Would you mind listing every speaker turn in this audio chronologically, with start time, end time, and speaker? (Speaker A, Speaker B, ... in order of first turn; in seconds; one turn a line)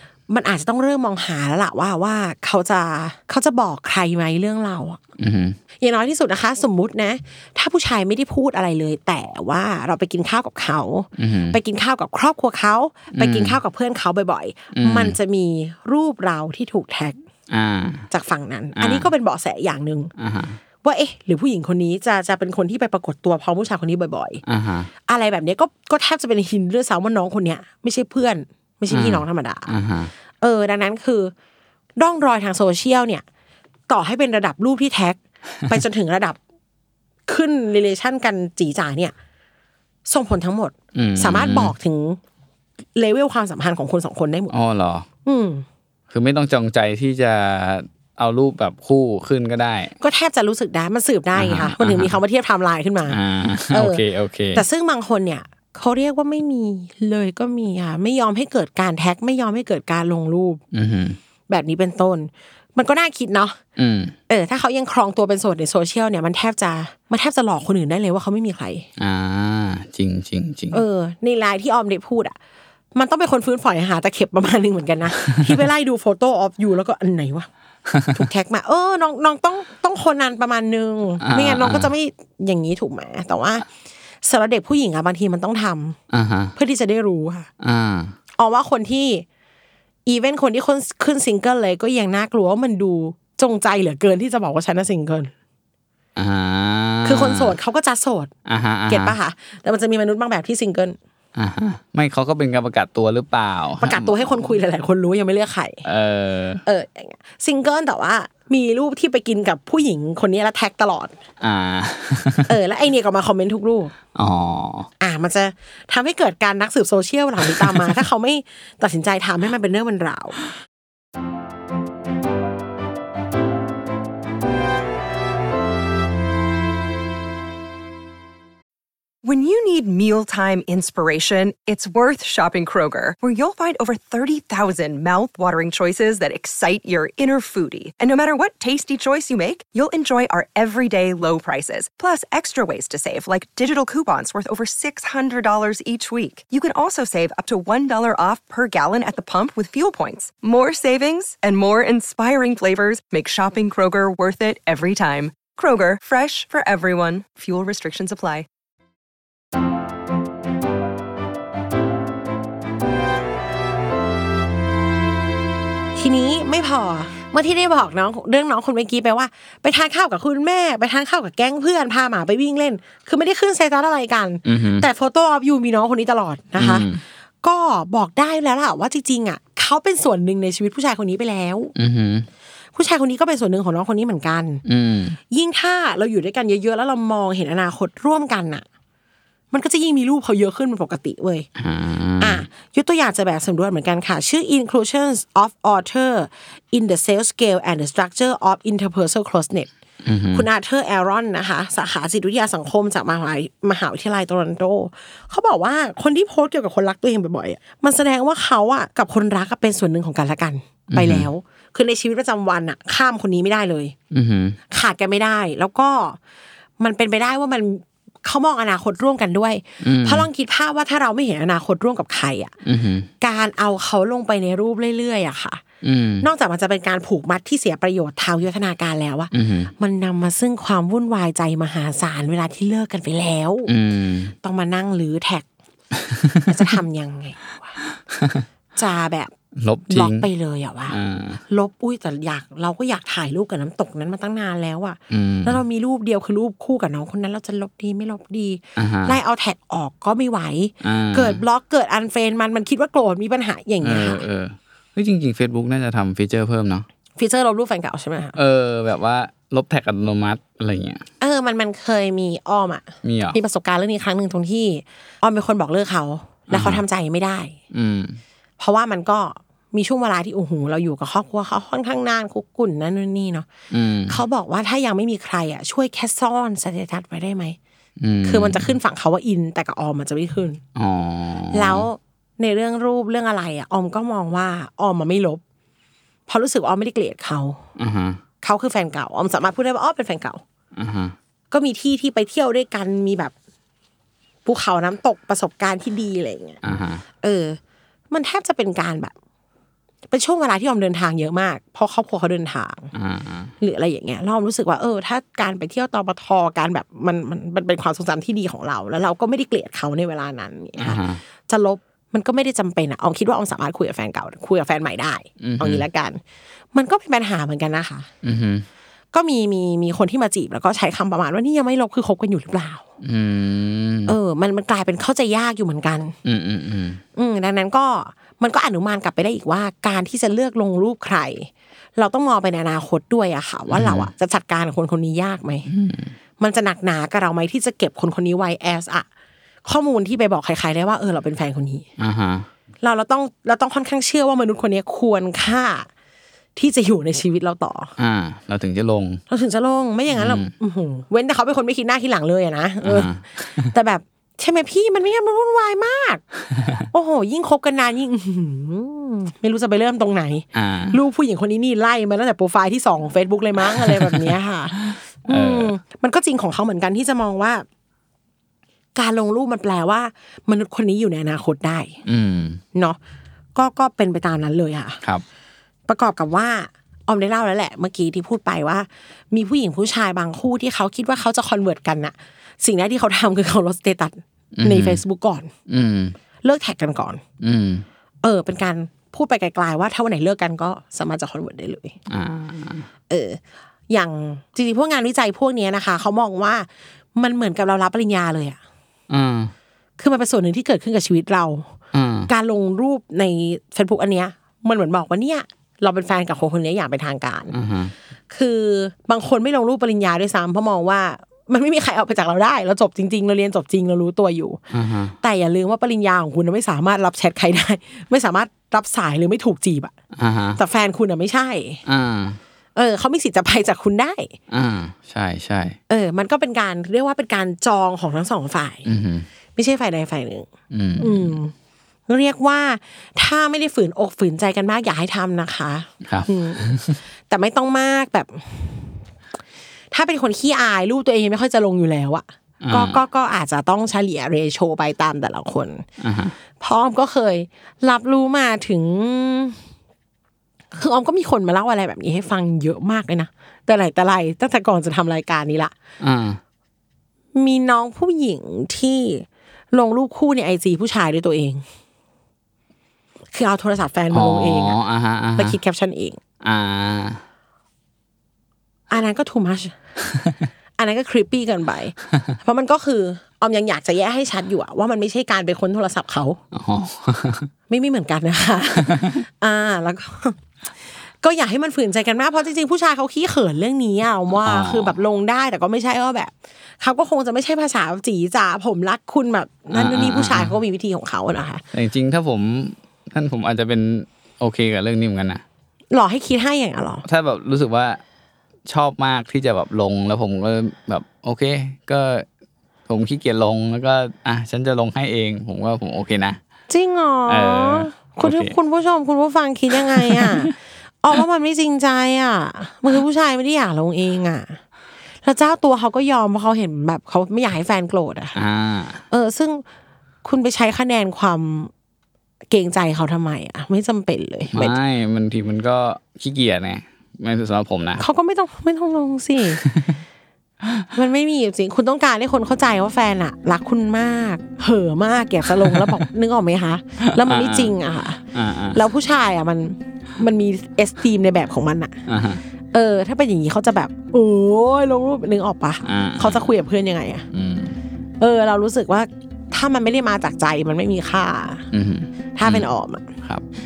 Speaker A: 0.3-5.0
Speaker B: 5.2-5.6
Speaker A: 5.8-17.2
Speaker B: 11.2-11.6
Speaker B: 13.1-13.6
Speaker B: 14.7-15.2
Speaker B: 17.5-18.1
Speaker A: 18.1-20.1
Speaker B: 18.8-19.1
Speaker B: 20.2-20.6
Speaker A: 20.8-24.4
Speaker B: 24.4-24.9
Speaker A: 25.1-29.7
Speaker B: 28.9-30.1
Speaker A: 30.4-31.3
Speaker A: 32.0-33.2
Speaker A: 33.9-36.4
Speaker A: 37.3-39.1
Speaker A: 40.1-42.2
Speaker B: 40.9-41.8
Speaker A: 43.0-44.5
Speaker B: 44.5-45.1
Speaker A: 45.2-45.6
Speaker B: 46.1-49.9
Speaker A: 50.0-53.2
Speaker B: 51.4-52.1
Speaker B: 53.1-54.6
Speaker A: 53.7-54.0
Speaker A: 54.5-60.6
Speaker B: 60.7-61.2
Speaker A: 61.5-63.6
Speaker B: 63.8-64.2
Speaker A: 64.3-68.9
Speaker B: 69.0-70.8
Speaker A: 70.7-72.4
Speaker A: 73.0-77.5
Speaker B: 75.2-75.6
Speaker B: 77.9-78.2
Speaker A: 78.1-83.7
Speaker B: 81.2-81.9
Speaker A: 84.2-86.0
Speaker B: 86.1-86.5
Speaker A: 86.6-87.5
Speaker B: 87.6-88.1
Speaker A: 88.4-89.2
Speaker A: 90.1-95.3
Speaker B: 96.2-97.6
Speaker A: 97.0-98.3
Speaker B: 98.5-99.2
Speaker A: 98.9-101.0
Speaker B: 101.4-104.5
Speaker A: 103.8-105.8
Speaker B: 105.8-106.6
Speaker A: 106.7-111.2
Speaker B: 111.4-112.5
Speaker A: 112.5-113.9
Speaker B: 114.2-114.9
Speaker A: 115.0-120.4
Speaker B: 117.4-118.0
Speaker C: 129.2-158.5
Speaker A: 166.0-176.9
Speaker B: 174.4-174.9
Speaker B: 176.6-177.0
Speaker A: 177.4-181.7
Speaker B: 181.8-182.3
Speaker A: 182.8-184.6
Speaker B: 184.7-185.2
Speaker A: 185.3-188.7
Speaker A: 189.5-191.5
Speaker B: 191.6-192.5
Speaker A: 192.2-199.7
Speaker B: 200.0-200.5
Speaker A: 200.3-213.9
Speaker B: 210.9-211.3
Speaker B: 214.1-214.6
Speaker A: 214.7-216.2
Speaker A: 216.8-222.6
Speaker B: 219.8-220.3
Speaker B: 222.6-223.1
Speaker A: 223.2-225.6
Speaker B: 225.8-226.3
Speaker A: 226.2-233.7
Speaker B: 229.3-229.7
Speaker B: 233.7-234.3
Speaker A: 234.4-235.5
Speaker B: 235.9-236.5
Speaker A: 236.4-237.8
Speaker B: 238.1-238.5
Speaker A: 238.8-239.3
Speaker B: 239.6-240.2
Speaker A: 239.9-241.0
Speaker B: 240.9-241.4
Speaker A: 241.5-254.2
Speaker B: 245.1-245.6
Speaker B: 248.8-249.2
Speaker B: 250.8-251.4
Speaker B: 253.8-256.9
Speaker A: 257.2-258.4
Speaker B: 258.4-261.1
Speaker A: 261.2-267.6
Speaker B: 263.0-263.4
Speaker B: 266.5-266.8
Speaker B: 267.7-268.2
Speaker A: 268.6-273.5
Speaker B: 273.7-274.2
Speaker A: 274.1-277.6
Speaker B: 278.0-278.7
Speaker A: 278.2-280.6
Speaker B: 280.8-281.9
Speaker A: 281.5-285.4
Speaker A: 286.3-287.6
Speaker B: 287.8-288.2
Speaker A: 288.4-290.4
Speaker B: 290.8-291.1
Speaker A: 291.5-293.3
Speaker A: 294.5-296.6
Speaker B: 296.6-297.0
Speaker A: 297.2-297.6
Speaker A: 298.1-299.1
Speaker A: 300.1-302.9
Speaker B: 302.9-303.5
Speaker A: 303.6-316.2
Speaker B: 310.8-311.2
Speaker B: 315.4-315.9
Speaker A: 316.7-318.1
Speaker B: 318.2-318.7
Speaker A: 319.1-322.9
Speaker B: 323.0-324.2
Speaker A: 324.1-326.1
Speaker B: 326.2-327.0
Speaker A: 327.2-335.7
Speaker B: 333.7-334.1
Speaker B: 335.7-336.1
Speaker A: 336.4-339.1
Speaker A: 339.6-341.9
Speaker B: 342.0-342.5
Speaker A: 342.8-345.9
Speaker A: 346.6-347.9
Speaker B: 348.0-349.2
Speaker A: 349.3-356.2
Speaker B: 350.1-350.5
Speaker B: 352.8-353.7
Speaker B: 356.6-356.8
Speaker A: 356.9-367.6
Speaker B: 360.5-361.0
Speaker B: 363.6-365.7
Speaker A: 368.9-372.0
Speaker B: 372.1-372.6
Speaker A: 373.6-375.0
Speaker A: 375.9-385.5
Speaker B: 384.6-385.0
Speaker B: 385.7-386.2
Speaker A: 386.4-387.2
Speaker B: 387.4-387.9
Speaker A: 388.2-392.0
Speaker B: 392.1-392.9
Speaker A: 393.1-398.6
Speaker B: 399.1-399.5
Speaker A: 400.0-401.7
Speaker B: 401.9-402.3
Speaker A: 402.3-407.5
Speaker B: 407.5-407.9
Speaker A: 408.3-414.6
Speaker B: 414.7-415.1
Speaker A: 415.2-419.9
Speaker B: 420.1-420.6
Speaker A: 420.6-421.8
Speaker B: 421.9-422.4
Speaker A: 422.8-424.3
Speaker B: 424.5-425.8
Speaker A: 425.9-428.9
Speaker B: 428.9-429.3
Speaker A: 429.6-430.5
Speaker B: 430.7-431.4
Speaker A: 431.0-431.5
Speaker A: 432.1-436.7
Speaker B: 436.0-437.0
Speaker A: 437.3-438.9
Speaker A: 439.9-445.9
Speaker B: 442.6-443.0
Speaker B: 446.0-446.3
Speaker A: 446.6-449.6
Speaker A: 450.7-455.7
Speaker B: 456.0-456.4
Speaker A: 457.4-461.6
Speaker A: 463.3-464.8
Speaker B: 464.1-465.6
Speaker A: 465.4-466.2
Speaker B: 466.4-467.2
Speaker A: 468.9-469.8
Speaker A: 470.8-476.4
Speaker B: 476.5-477.5
Speaker A: 477.7-480.4
Speaker B: 478.8-479.2
Speaker A: 481.2-491.6
Speaker B: 484.4-485.0
Speaker B: 489.7-490.5
Speaker B: 491.7-495.4
Speaker A: 495.9-497.1
Speaker B: 497.1-498.0
Speaker B: 498.7-502.3
Speaker B: 502.9-506.4
Speaker A: 506.7-514.6
Speaker B: 507.3-508.5
Speaker B: 509.7-510.4
Speaker A: 515.2-518.4
Speaker B: 518.4-519.0
Speaker A: 519.1-519.6
Speaker A: 520.2-521.7
Speaker A: 522.5-524.8
Speaker B: 524.5-528.0
Speaker A: 528.0-529.6
Speaker B: 529.6-530.0
Speaker A: 530.9-538.2
Speaker B: 535.6-535.9
Speaker B: 537.1-537.8
Speaker B: 538.3-538.8
Speaker A: 538.7-542.0
Speaker B: 542.1-542.4
Speaker A: 542.7-547.3
Speaker B: 545.9-546.5
Speaker B: 547.3-547.8
Speaker A: 548.2-551.7
Speaker B: 551.7-552.7
Speaker A: 552.4-553.1